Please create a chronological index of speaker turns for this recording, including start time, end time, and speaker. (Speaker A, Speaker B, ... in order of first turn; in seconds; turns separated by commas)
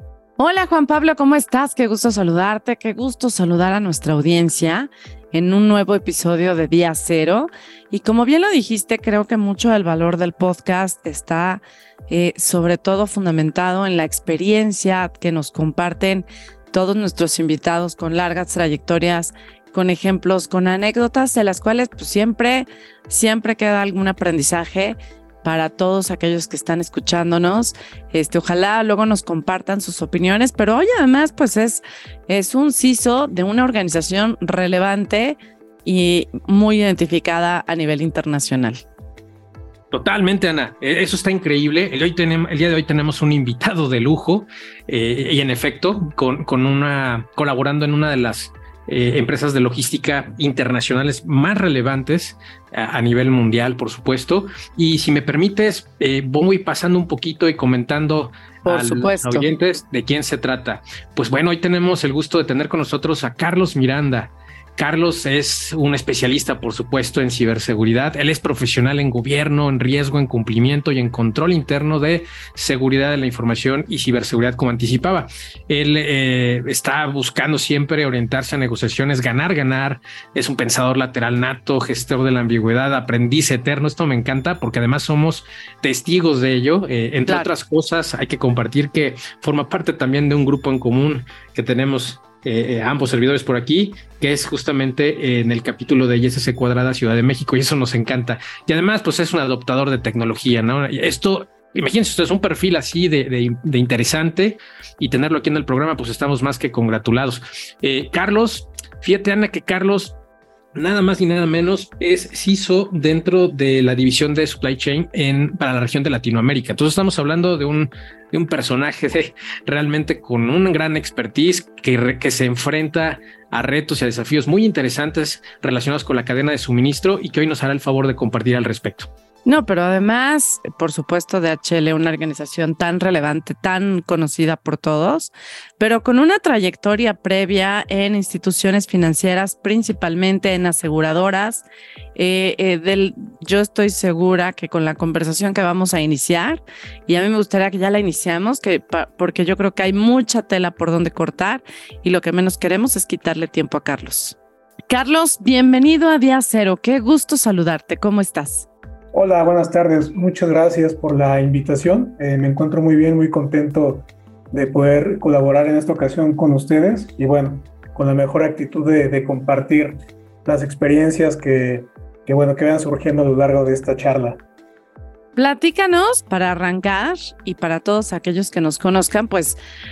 Speaker A: 0.4-38.8, Speaker B: 39.9-110.2, Speaker A: 58.6-59.5, Speaker B: 110.8-129.1, Speaker A: 129.5-154.4, Speaker A: 154.9-158.7, Speaker C: 159.1-174.4, Speaker A: 175.4-179.6